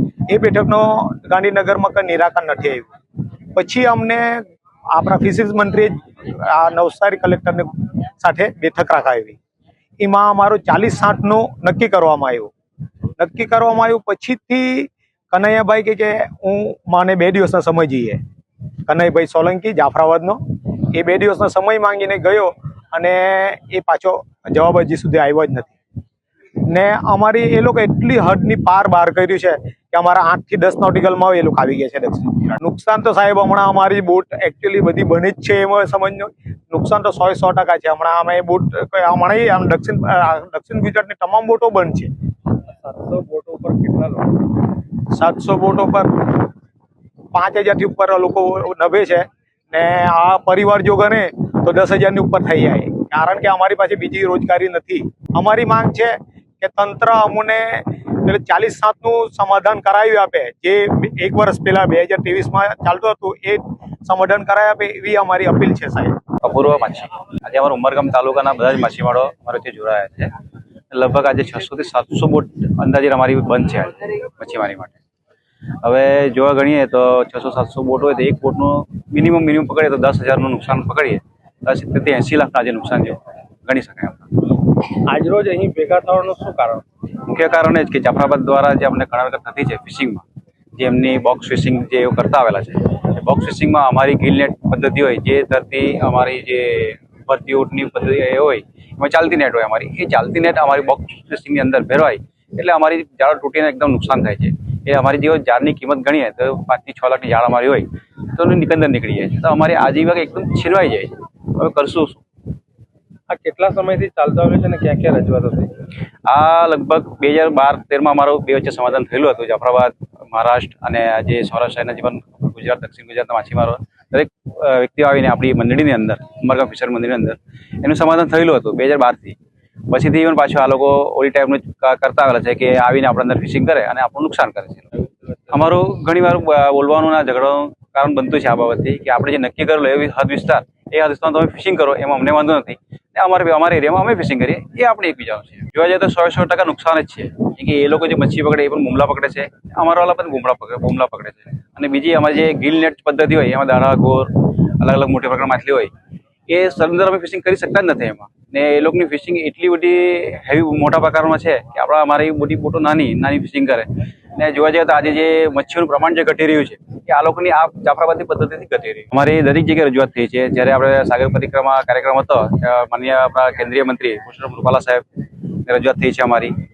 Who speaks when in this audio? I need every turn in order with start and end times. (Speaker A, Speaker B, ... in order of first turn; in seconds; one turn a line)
Speaker A: 0.3-2.9
Speaker A: 3.5-4.4
Speaker A: 4.9-7.7
Speaker A: 8.2-9.4
Speaker A: 10.0-12.5
Speaker A: 13.2-18.2
Speaker A: 18.9-20.4
Speaker A: 20.9-25.7
Speaker A: 26.6-42.1
Speaker B: 42.8-44.6
Speaker A: 45.1-46.5
Speaker A: 47.3-66.2
Speaker C: 66.4-70.3
Speaker C: 70.9-74.9
Speaker C: 75.8-84.6
Speaker B: 85.0-86.8
Speaker C: 87.2-90.2
Speaker C: 90.8-112.2
Speaker B: 113.3-115.7
Speaker C: 116.2-129.4
Speaker C: 129.9-134.9
Speaker C: 135.5-155.9
Speaker C: 156.5-175.0
Speaker C: 175.7-176.5